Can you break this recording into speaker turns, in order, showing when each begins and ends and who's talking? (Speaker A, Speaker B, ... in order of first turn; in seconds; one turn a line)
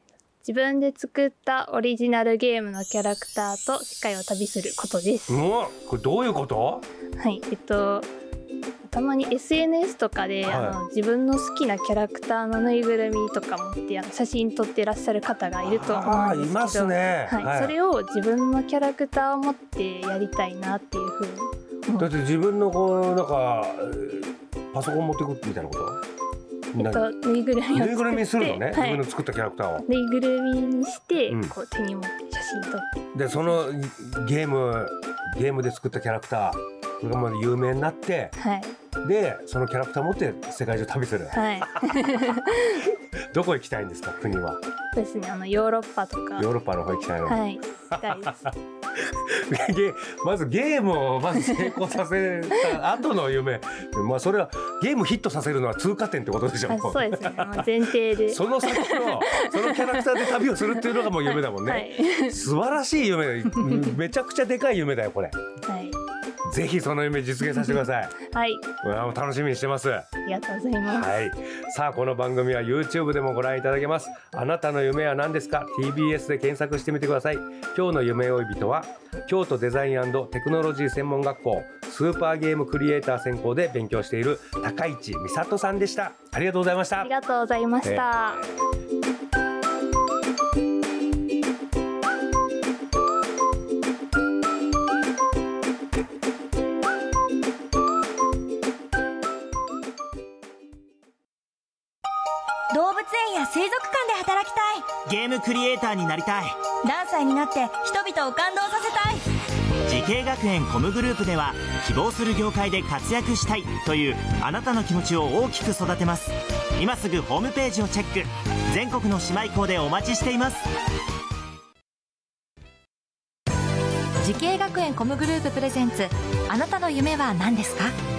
Speaker A: 0.4-5.4
Speaker B: 5.3-6.8
Speaker A: 7.2-8.1
Speaker A: 8.8-22.1
Speaker B: 10.4-10.8
Speaker B: 15.6-17.7
Speaker B: 22.0-26.0
Speaker B: 26.7-27.1
Speaker A: 26.8-29.0
Speaker B: 27.7-29.8
Speaker A: 29.8-33.6
Speaker B: 33.1-38.3
Speaker A: 38.4-38.8
Speaker B: 39.0-42.6
Speaker A: 41.3-42.8
Speaker B: 43.3-44.6
Speaker A: 44.9-46.5
Speaker B: 46.4-57.7
Speaker A: 47.2-48.5
Speaker A: 56.7-62.4
Speaker B: 58.3-65.3
Speaker A: 63.5-63.9
Speaker A: 65.6-66.0
Speaker B: 66.4-68.2
Speaker A: 68.3-68.7
Speaker B: 68.8-70.1
Speaker A: 70.2-71.1
Speaker B: 70.8-87.1
Speaker A: 87.0-88.4
Speaker B: 87.8-88.5
Speaker C: 102.7-104.9
Speaker D: 105.0-106.6
Speaker C: 106.8-109.2
Speaker D: 109.8-120.7
Speaker E: 124.2-127.9